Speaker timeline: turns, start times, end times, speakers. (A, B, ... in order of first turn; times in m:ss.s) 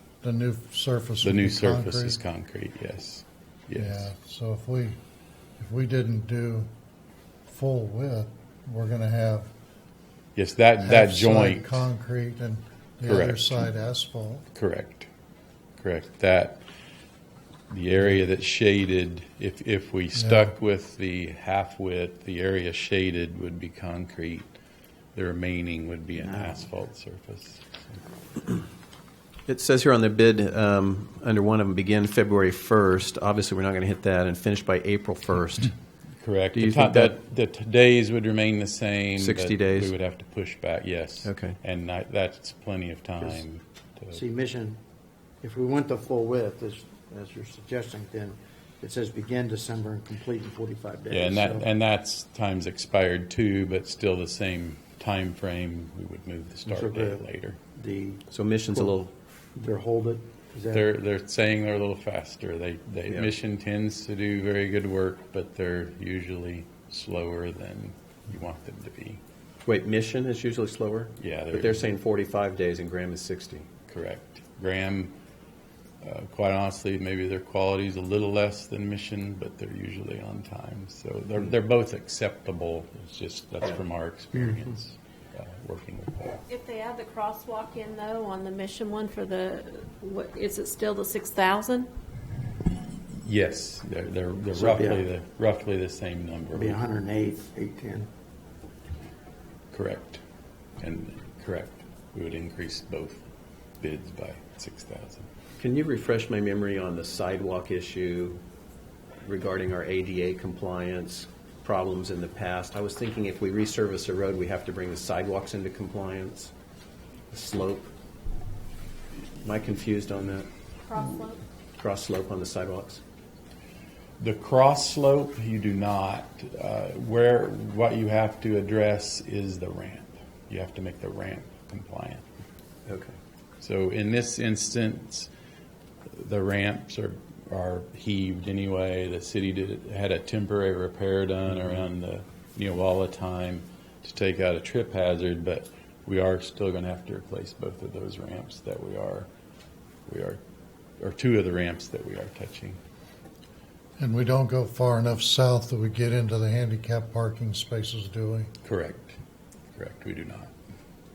0:00.2-0:02.2 A
0:01.2-0:04.1 B
0:03.7-0:05.0 A
0:05.6-0:06.7 A
0:07.5-0:09.5 A
0:10.4-0:11.9 B
0:10.8-0:14.4 A
0:13.0-0:13.6 B
0:14.5-0:15.1 B
0:15.8-0:16.6 B
0:17.7-0:24.5 B
0:20.1-0:20.5 A
0:25.1-0:27.8 B
0:26.2-0:26.5 C
0:29.5-0:35.7 D
0:36.2-0:44.2 B
0:36.5-0:37.2 D
0:39.2-0:39.9 D
0:41.2-0:41.6 D
0:44.1-0:44.8 C
0:45.4-0:51.7 C
0:51.1-0:57.6 B
0:56.7-0:57.2 C
0:57.7-0:59.0 C
0:58.3-0:59.1 D
0:59.5-1:00.9 C
1:00.7-1:09.2 B
1:09.6-1:13.7 D
1:11.2-1:11.9 B
1:13.9-1:15.2 B
1:16.0-1:26.4 B
1:26.5-1:31.9 E
1:33.1-1:36.8 B
1:34.5-1:35.0 C
1:36.5-1:38.1 C
1:39.7-1:40.2 B
1:40.8-1:43.2 B
1:43.8-1:45.3 B
1:45.6-1:48.4 D
1:49.2-1:56.5 D
1:57.3-1:57.9 D
1:59.4-2:00.5 D
2:00.9-2:01.4 E
2:01.8-2:03.0 D
2:04.2-2:12.2 B
2:12.8-2:13.2 D
2:13.6-2:15.3 B
2:16.1-2:29.3 B
2:30.1-2:30.4 B
2:31.0-2:32.8 B
2:34.0-2:38.5 A
2:38.6-2:39.2 B
2:39.7-2:40.5 B